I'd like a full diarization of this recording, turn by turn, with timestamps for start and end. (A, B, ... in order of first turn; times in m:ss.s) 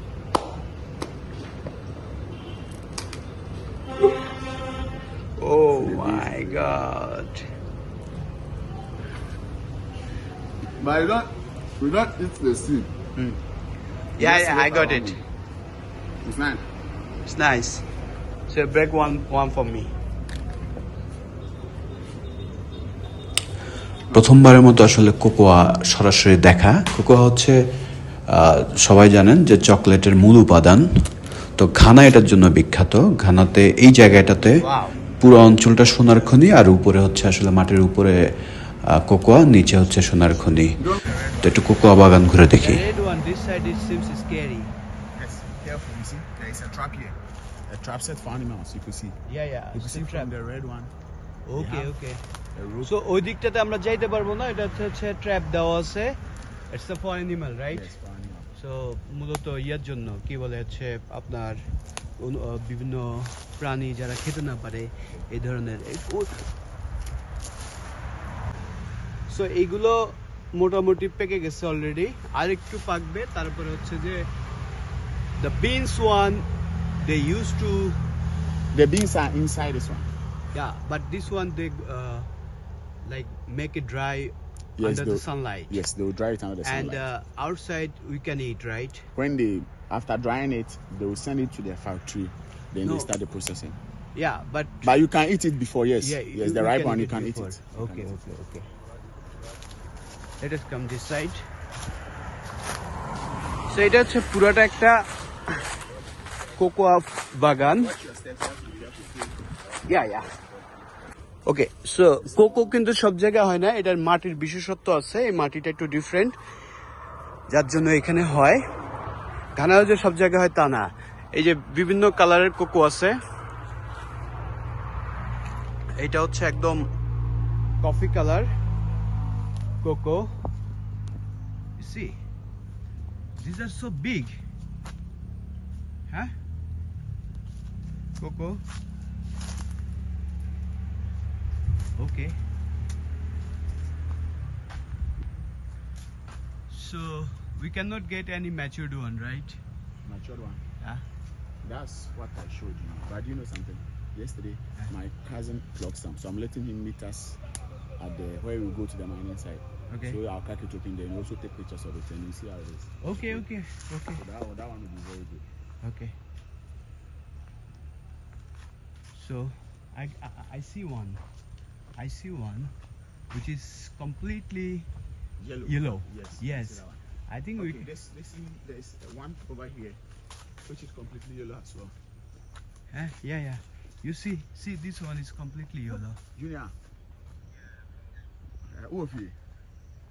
0:05.4-0:07.5 A
0:05.7-0:06.8 B
0:10.8-0:12.9 B
0:14.2-0:15.2 A
0:14.2-0:15.2 B
0:16.2-0:16.7 B
0:17.3-0:17.8 A
0:18.5-0:19.9 A
0:24.1-0:27.6 C
0:28.3-0:30.8 C
0:31.6-0:34.6 C
0:34.6-0:35.0 A
0:35.2-0:38.2 C
0:38.9-0:40.8 C
0:40.8-0:41.8 B
0:41.4-0:42.8 C
0:42.5-0:44.7 A
0:45.2-0:49.2 B
0:49.3-0:50.3 A
0:49.7-0:50.9 B
0:51.5-0:52.2 A
0:51.5-0:51.9 B
0:52.6-0:53.0 B
0:52.8-0:56.2 A
0:56.7-0:57.9 A
0:57.7-0:58.5 B
0:58.6-1:01.6 A
1:02.2-1:06.4 A
1:09.3-1:14.3 A
1:15.4-1:16.5 A
1:17.0-1:18.0 A
1:18.7-1:20.1 B
1:20.5-1:22.3 A
1:23.0-1:25.8 A
1:24.8-1:27.1 B
1:26.6-1:29.1 A
1:29.2-1:33.8 B
1:32.8-1:33.1 A
1:34.2-1:34.9 A
1:34.8-1:38.2 B
1:36.0-1:38.7 A
1:40.4-1:41.4 A
1:43.7-1:45.6 A
1:46.6-1:47.9 A
1:47.7-1:51.0 B
1:49.9-1:50.3 A
1:51.5-1:56.4 A
1:52.2-1:52.8 B
1:57.5-1:58.6 A
1:59.6-2:03.2 A
2:06.0-2:06.9 A
2:07.8-2:08.5 A
2:09.8-2:10.3 A
2:11.8-2:12.2 A
2:13.4-2:14.4 A
2:18.2-2:18.6 A
2:22.0-2:22.4 A
2:26.7-2:29.6 A
2:30.0-2:30.6 B
2:31.6-2:37.4 B
2:38.0-2:43.5 B
2:39.9-2:40.2 A
2:43.0-2:44.2 A
2:44.1-2:45.5 B
2:45.8-2:46.2 A
2:49.1-2:51.2 A
2:52.0-2:52.7 A
2:53.3-2:54.9 A
2:55.4-2:57.0 B
2:55.7-2:57.9 A
2:57.6-3:00.0 B
3:00.6-3:02.0 B
3:02.9-3:06.2 A
3:06.4-3:06.7 B
3:08.6-3:09.4 B